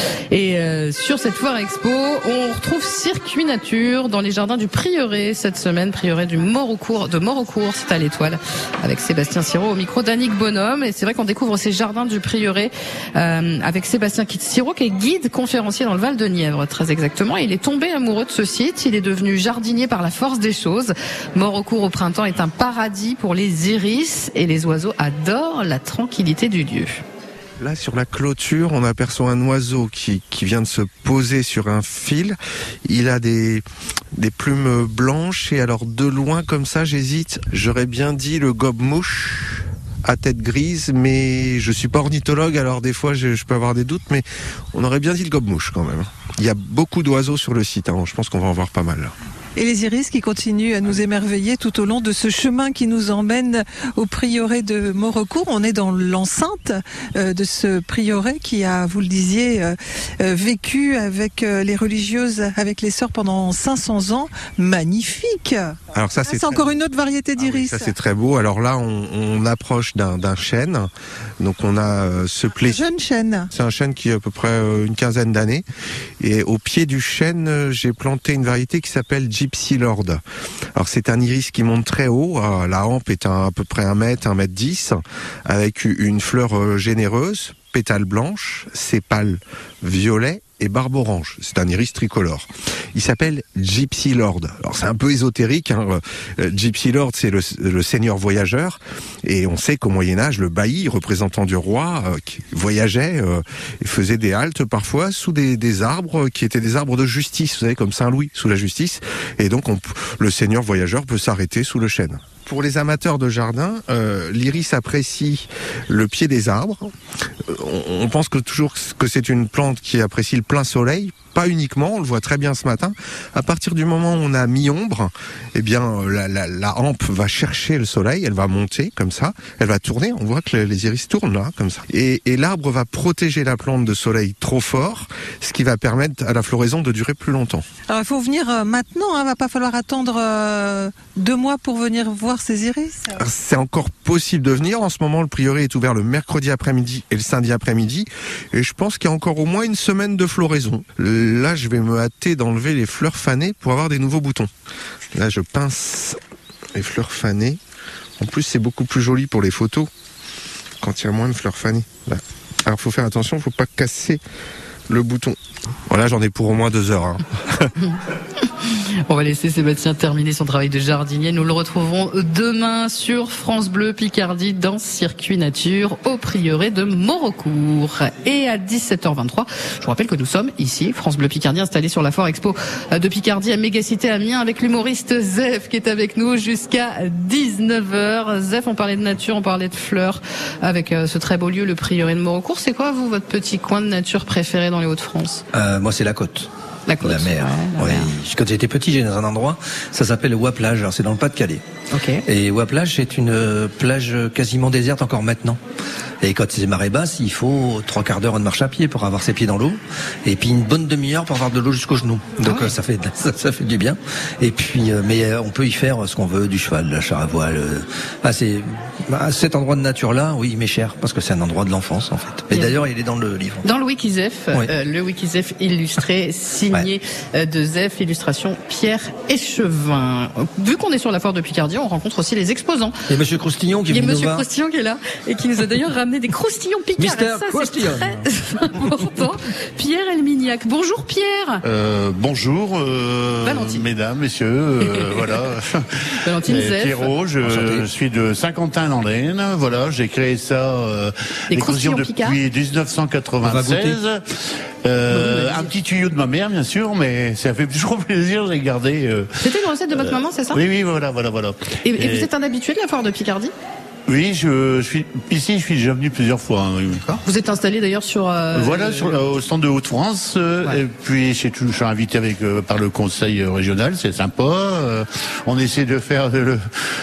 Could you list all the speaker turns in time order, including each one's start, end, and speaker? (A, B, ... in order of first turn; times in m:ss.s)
0:00.3-0:27.0 A
0:27.6-0:49.1 B
0:49.6-1:07.9 C
1:05.9-1:06.8 B
1:07.4-1:12.8 B
1:12.6-1:13.5 C
1:13.5-1:15.6 B
1:16.2-1:20.2 B
1:20.7-1:56.9 B
1:57.5-2:17.6 B
2:17.9-2:23.2 C
2:23.2-2:34.5 B
2:35.1-2:36.2 B
2:36.7-2:37.6 B
2:38.2-2:39.9 B
2:40.8-2:44.2 B
2:44.9-2:45.4 B
2:45.9-2:47.7 B
2:48.6-3:15.4 A
3:15.5-3:16.5 D
3:16.9-3:18.1 A
3:17.0-3:21.6 D
3:21.9-3:22.2 A
3:22.2-3:25.6 D
3:26.2-3:43.6 D
3:32.4-3:32.7 A
3:42.5-3:42.8 A
3:43.6-3:53.0 A
3:53.1-3:54.4 D
3:53.9-4:01.6 A
3:57.0-3:58.2 D
4:01.6-4:05.8 E
4:03.4-4:03.9 A
4:04.8-4:05.2 A
4:06.2-4:07.1 A
4:06.4-4:19.4 E
4:07.4-4:07.9 D
4:11.5-4:12.4 A
4:13.4-4:14.0 D
4:15.1-4:15.7 A
4:19.4-4:20.6 A
4:19.9-4:22.3 E
4:21.8-4:23.5 A
4:24.1-4:27.0 E
4:27.0-4:29.2 A
4:28.5-4:36.6 E